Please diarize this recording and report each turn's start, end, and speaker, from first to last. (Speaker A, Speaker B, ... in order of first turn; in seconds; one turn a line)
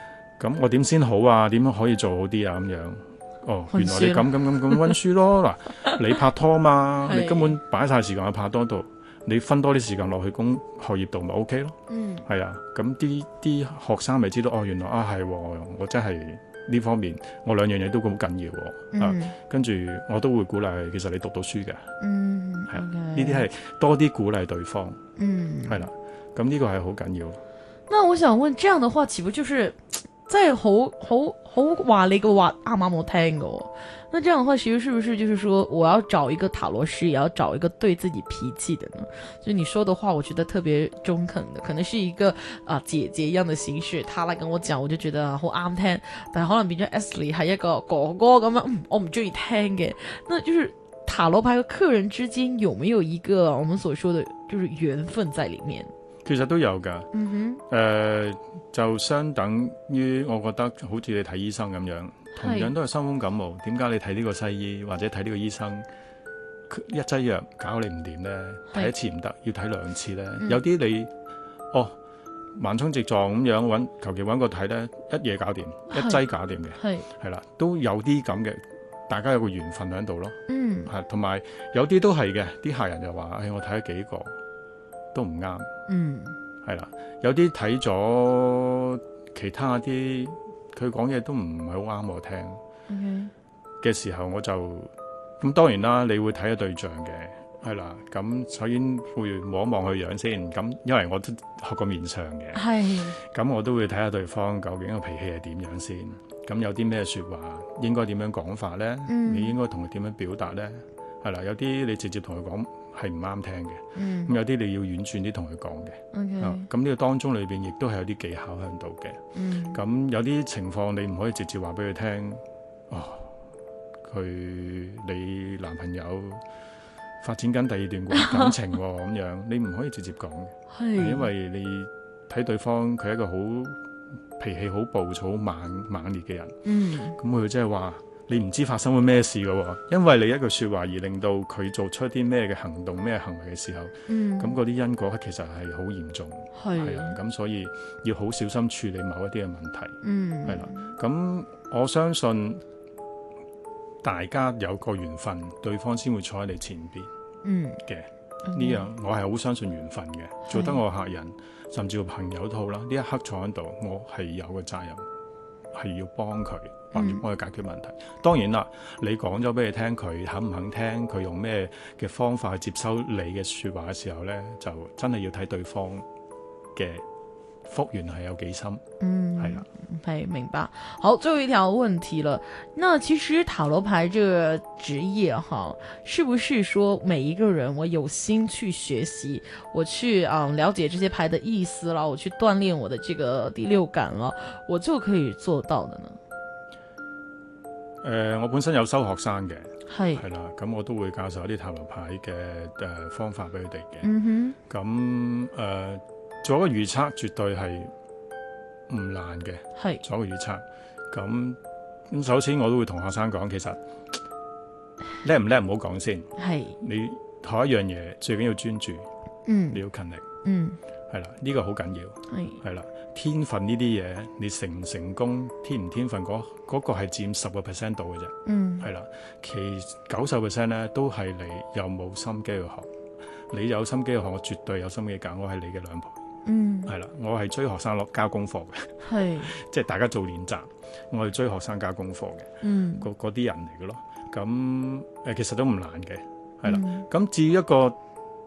Speaker A: 0.4-21.9
Speaker B: 3.7-5.0
Speaker B: 7.0-7.6
Speaker B: 11.9-12.2
Speaker B: 18.9-19.3
Speaker B: 22.0-23.5
Speaker A: 22.7-25.0
Speaker B: 25.2-25.9
Speaker A: 25.6-27.4
Speaker B: 27.9-55.9
Speaker A: 56.2-57.1
Speaker B: 57.1-57.6
Speaker A: 57.7-65.8
Speaker B: 62.4-62.7
Speaker A: 66.7-71.1
Speaker A: 72.5-84.3
Speaker B: 75.9-77.1
Speaker B: 80.5-80.9
Speaker A: 85.1-85.7
Speaker B: 85.9-86.4
Speaker A: 86.6-92.6
Speaker B: 92.9-93.3
Speaker A: 93.8-102.6
Speaker B: 102.5-103.2
Speaker A: 103.2-119.2
Speaker B: 109.1-109.5
Speaker B: 113.9-114.3
Speaker B: 116.1-116.7
Speaker B: 119.3-119.8
Speaker A: 119.7-123.3
Speaker A: 124.0-126.4
Speaker A: 127.2-133.8
Speaker B: 128.1-128.5
Speaker B: 130.7-131.3
Speaker A: 134.4-136.6
Speaker B: 136.6-137.2
Speaker A: 137.2-152.6
Speaker B: 144.1-144.5
Speaker B: 146.5-147.2
Speaker B: 150.0-150.9
Speaker A: 154.0-157.1
Speaker B: 157.4-157.8
Speaker A: 157.8-165.0
Speaker B: 158.4-158.9
Speaker B: 160.4-160.8
Speaker A: 165.7-176.0
Speaker B: 166.9-167.2
Speaker A: 176.7-177.0
Speaker A: 177.6-178.8
Speaker B: 179.0-196.2
Speaker A: 179.4-179.6
Speaker A: 198.0-204.1
Speaker B: 199.9-200.2
Speaker B: 204.0-204.6
Speaker A: 204.7-207.9
Speaker A: 208.9-213.8
Speaker B: 209.8-210.0
Speaker A: 215.2-219.1
Speaker B: 216.4-216.8
Speaker B: 219.4-219.8
Speaker A: 219.7-220.2
Speaker B: 220.4-220.8
Speaker A: 221.1-232.9
Speaker B: 222.3-222.6
Speaker B: 228.4-228.9
Speaker A: 233.5-236.2
Speaker B: 236.4-236.9
Speaker A: 236.9-248.0
Speaker B: 239.0-239.6
Speaker B: 242.6-243.1
Speaker B: 246.7-247.1